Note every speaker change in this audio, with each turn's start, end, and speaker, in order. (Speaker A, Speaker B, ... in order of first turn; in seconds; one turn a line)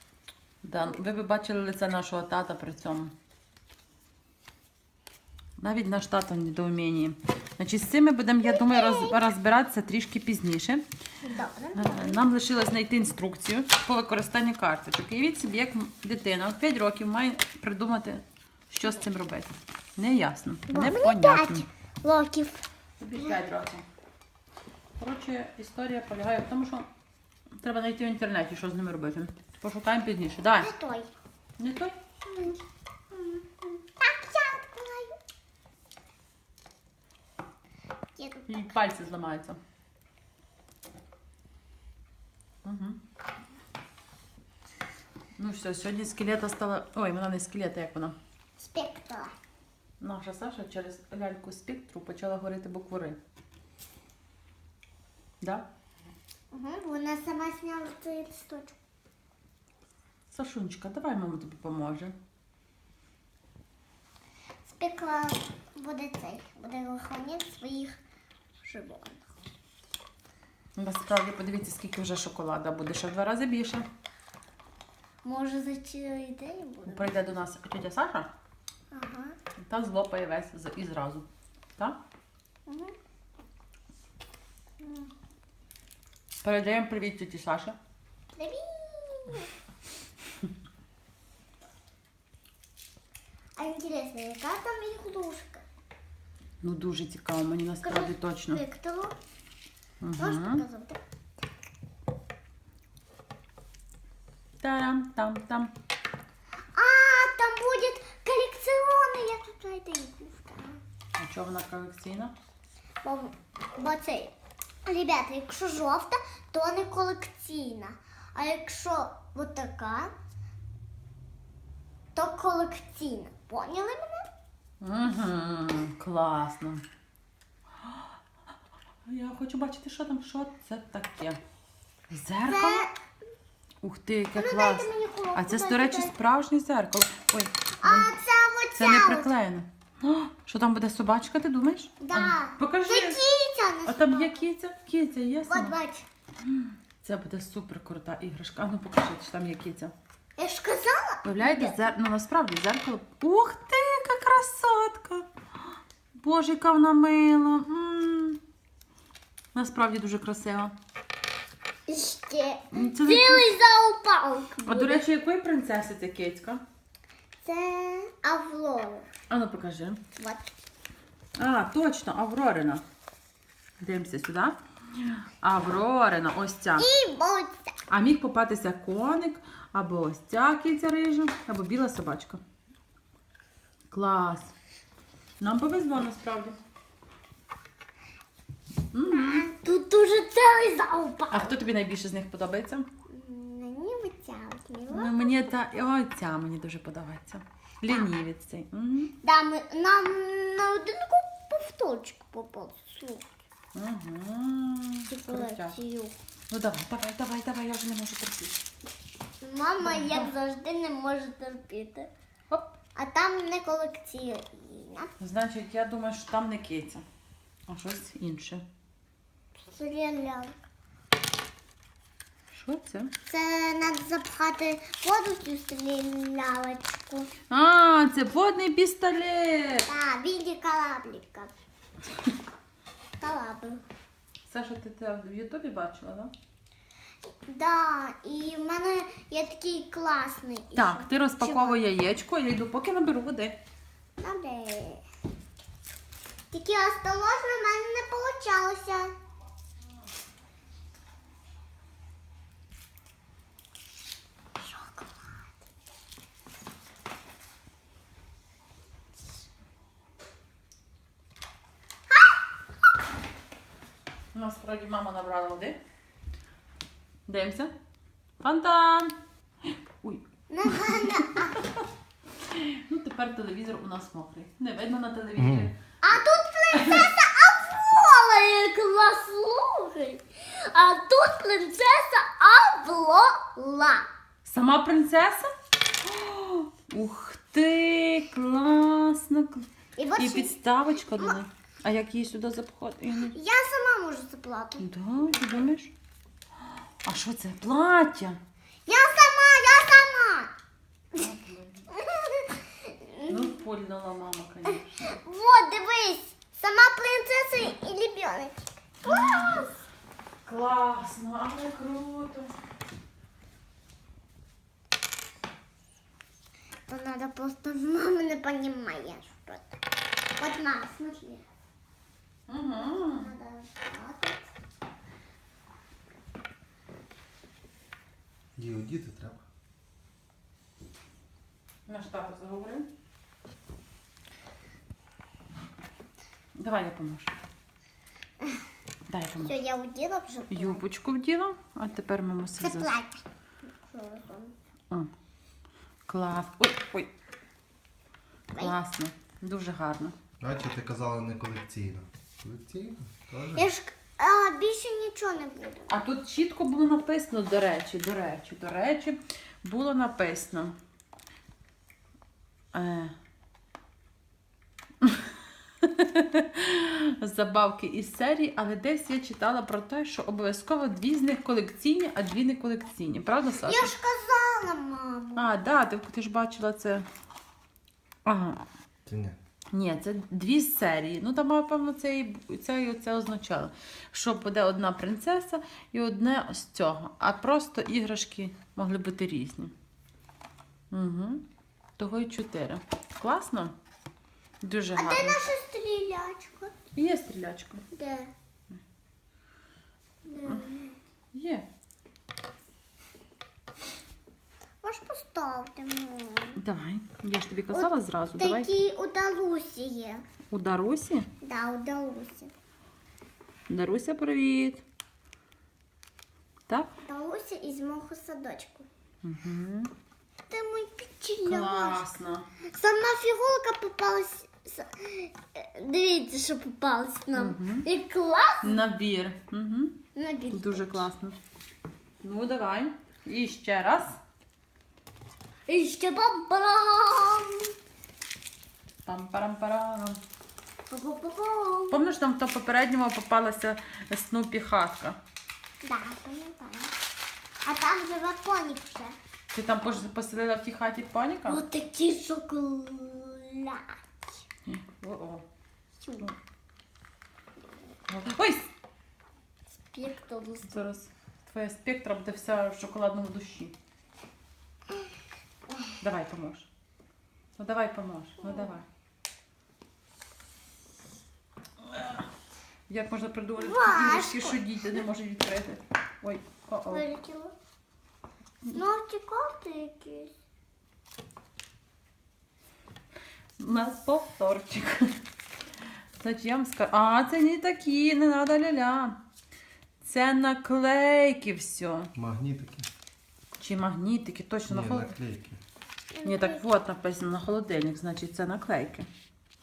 Speaker A: 0.6-3.1
Speaker A: 5.6-10.8
Speaker B: 8.4-9.2
Speaker B: 11.2-12.2
Speaker A: 11.8-21.6
Speaker B: 20.7-22.6
Speaker A: 23.0-23.9
Speaker A: 25.0-26.9
Speaker A: 27.6-30.7
Speaker B: 30.6-31.1
Speaker A: 31.6-32.0
Speaker B: 32.2-32.6
Speaker B: 33.1-35.2
Speaker B: 38.2-38.5
Speaker A: 38.5-39.6
Speaker A: 42.6-43.0
Speaker A: 45.4-48.1
Speaker B: 48.6-49.4
Speaker A: 50.0-53.2
Speaker A: 55.4-55.6
Speaker B: 56.5-58.8
Speaker A: 60.3-62.1
Speaker B: 64.6-68.0
Speaker B: 68.6-69.3
Speaker A: 70.8-73.9
Speaker B: 75.2-77.2
Speaker A: 76.9-78.3
Speaker B: 78.9-79.4
Speaker A: 79.6-82.0
Speaker B: 82.7-82.9
Speaker B: 84.8-85.1
Speaker A: 86.4-87.8
Speaker B: 88.3-89.5
Speaker B: 93.5-95.6
Speaker A: 96.6-98.6
Speaker B: 97.8-99.1
Speaker A: 100.0-100.6
Speaker B: 100.2-101.0
Speaker A: 104.6-105.7
Speaker B: 106.7-110.8
Speaker A: 111.2-112.3
Speaker B: 113.0-114.3
Speaker B: 114.9-120.1
Speaker B: 122.1-124.2
Speaker A: 124.8-126.8
Speaker A: 129.0-131.4
Speaker A: 132.1-132.9
Speaker B: 132.5-132.9
Speaker A: 133.8-138.1
Speaker B: 134.4-136.1
Speaker B: 137.8-139.3
Speaker A: 138.7-143.2
Speaker B: 142.0-144.4
Speaker A: 143.9-145.8
Speaker B: 145.5-146.1
Speaker A: 146.5-149.9
Speaker B: 150.4-151.8
Speaker A: 151.2-155.2
Speaker A: 156.1-158.4
Speaker A: 159.5-160.7
Speaker B: 161.9-165.0
Speaker A: 162.7-163.5
Speaker A: 164.6-166.6
Speaker B: 167.4-169.1
Speaker A: 169.3-170.0
Speaker B: 170.2-170.4
Speaker A: 171.4-172.8
Speaker A: 173.8-176.9
Speaker B: 176.8-177.7
Speaker A: 177.9-182.4
Speaker A: 183.9-184.5
Speaker A: 185.4-186.6
Speaker A: 188.9-189.5
Speaker B: 189.0-191.6
Speaker A: 191.3-192.9
Speaker B: 193.1-195.5
Speaker A: 194.9-199.1
Speaker B: 199.2-203.3
Speaker A: 203.8-205.8
Speaker B: 205.1-206.2
Speaker A: 206.5-208.6
Speaker B: 209.4-212.1
Speaker A: 209.8-210.3
Speaker B: 212.9-215.1
Speaker A: 215.2-217.0
Speaker A: 217.7-218.6
Speaker B: 219.6-220.5
Speaker A: 222.5-223.1
Speaker B: 223.3-227.3
Speaker A: 227.5-229.9
Speaker B: 229.9-231.5
Speaker B: 233.2-233.8
Speaker A: 234.5-236.3
Speaker B: 237.4-241.8
Speaker A: 240.8-243.6
Speaker B: 244.2-245.0
Speaker B: 246.5-249.1
Speaker B: 254.6-255.4
Speaker B: 262.1-262.3
Speaker A: 264.3-265.8
Speaker A: 267.3-267.7
Speaker A: 268.4-269.1
Speaker A: 270.0-271.8
Speaker B: 270.5-271.6
Speaker A: 272.4-275.8
Speaker C: 275.4-275.7
Speaker B: 276.0-284.1
Speaker A: 276.7-277.1
Speaker A: 284.4-285.5
Speaker A: 286.0-293.4
Speaker B: 290.0-290.6
Speaker B: 293.2-295.6
Speaker A: 294.8-295.9
Speaker A: 297.0-298.4
Speaker B: 298.9-300.5
Speaker A: 301.1-301.9
Speaker B: 301.9-303.4
Speaker A: 303.3-305.1
Speaker B: 304.7-309.7
Speaker A: 309.0-309.7
Speaker A: 310.4-312.5
Speaker B: 316.9-319.8
Speaker B: 320.4-321.4
Speaker A: 322.5-323.3
Speaker B: 322.7-324.5
Speaker C: 328.6-329.4
Speaker A: 331.9-332.9
Speaker A: 336.6-337.3
Speaker A: 339.1-339.5
Speaker B: 339.4-340.8
Speaker A: 340.5-342.9
Speaker B: 342.6-344.5
Speaker A: 346.1-347.1
Speaker A: 348.6-350.1
Speaker C: 350.4-353.7
Speaker B: 353.6-355.9
Speaker A: 355.9-360.8
Speaker A: 362.7-363.1
Speaker A: 365.8-373.9
Speaker B: 373.6-375.5
Speaker A: 375.4-377.1
Speaker A: 378.2-378.6
Speaker C: 379.1-379.4
Speaker A: 379.7-389.7
Speaker A: 390.9-391.4
Speaker A: 392.0-393.8
Speaker A: 394.6-395.4
Speaker B: 395.0-396.7
Speaker A: 396.9-397.8
Speaker B: 397.9-398.3
Speaker B: 400.2-401.0
Speaker A: 401.3-401.7
Speaker B: 404.8-406.6
Speaker A: 406.6-408.7
Speaker B: 407.7-410.2
Speaker A: 410.5-411.3
Speaker B: 411.4-412.5
Speaker A: 413.7-414.8
Speaker B: 417.0-418.9
Speaker A: 419.2-419.9
Speaker B: 420.5-422.0
Speaker A: 421.5-422.5
Speaker B: 422.7-428.8
Speaker A: 427.3-427.9
Speaker A: 428.6-430.0
Speaker B: 430.1-431.1
Speaker A: 430.5-431.4
Speaker A: 432.2-434.2
Speaker B: 435.7-437.7
Speaker A: 439.0-440.2
Speaker B: 440.9-442.0
Speaker A: 441.9-445.2
Speaker B: 445.8-446.9
Speaker B: 447.6-449.2
Speaker A: 449.5-451.6
Speaker B: 451.5-453.9
Speaker A: 454.7-455.4
Speaker B: 456.0-456.3
Speaker A: 458.1-458.7
Speaker B: 459.9-460.7
Speaker A: 460.7-463.8
Speaker A: 466.0-466.7
Speaker A: 467.6-468.9
Speaker B: 468.4-468.8
Speaker A: 471.8-472.2
Speaker A: 472.9-477.1
Speaker B: 473.6-474.6
Speaker B: 476.9-477.5
Speaker B: 478.7-480.3
Speaker A: 483.6-485.1
Speaker A: 486.2-489.2
Speaker A: 490.0-492.1
Speaker C: 492.1-492.9
Speaker A: 493.6-495.2
Speaker C: 494.7-495.6
Speaker B: 496.1-496.7
Speaker A: 496.2-499.1